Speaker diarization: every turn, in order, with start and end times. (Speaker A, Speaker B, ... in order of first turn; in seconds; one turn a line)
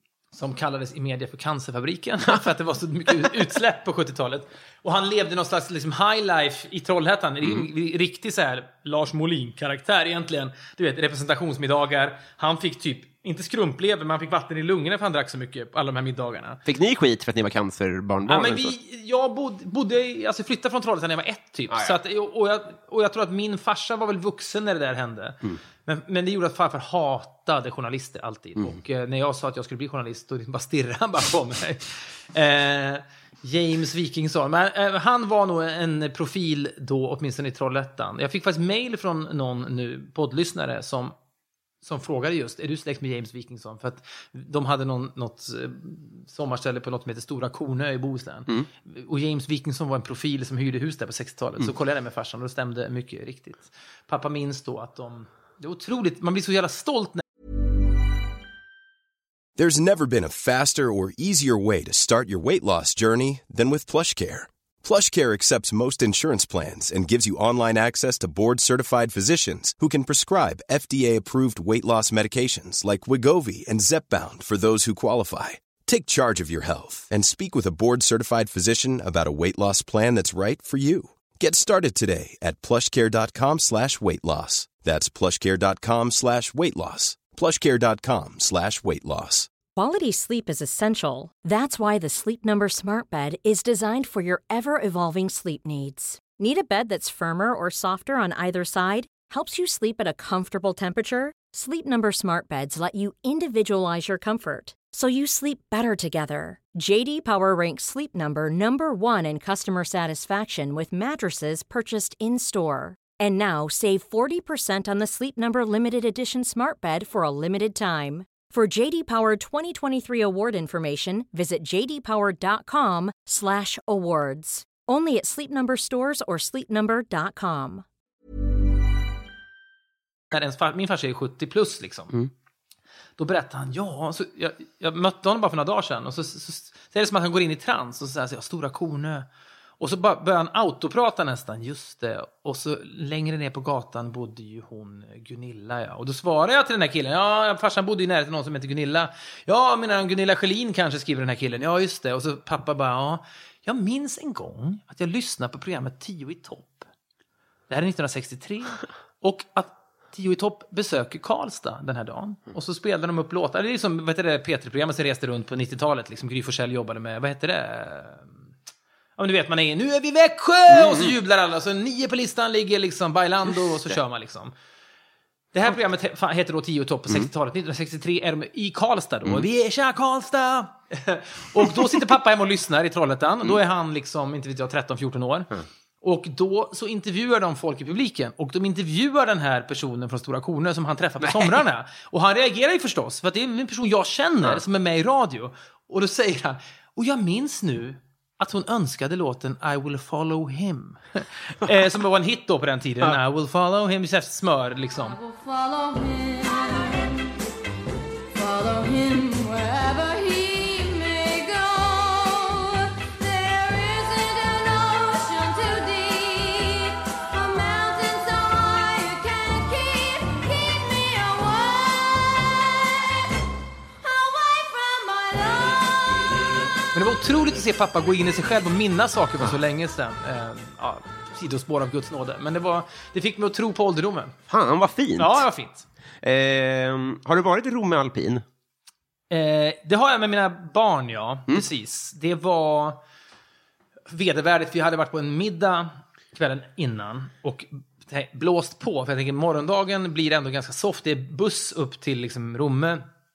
Speaker A: 0.3-16.6
Speaker B: 16.6-18.8
Speaker A: 18.3-41.1
Speaker B: 21.7-22.0
Speaker A: 41.8-57.2
Speaker C: 59.6-89.5
Speaker D: 89.8-127.9
Speaker A: 130.3-132.1
Speaker A: 133.2-139.3
Speaker A: 139.8-156.8
Speaker A: 157.7-168.3
Speaker A: 169.2-174.5
Speaker B: 170.7-171.1
Speaker A: 175.5-185.5
Speaker B: 181.6-182.1
Speaker A: 186.0-205.2
Speaker B: 191.2-191.5
Speaker E: 205.0-207.3
Speaker E: 208.3-223.0
Speaker E: 224.0-226.3
Speaker A: 226.9-234.4
Speaker B: 234.5-235.4
Speaker A: 235.2-235.9
Speaker B: 236.2-238.4
Speaker A: 239.3-243.0
Speaker A: 244.1-253.0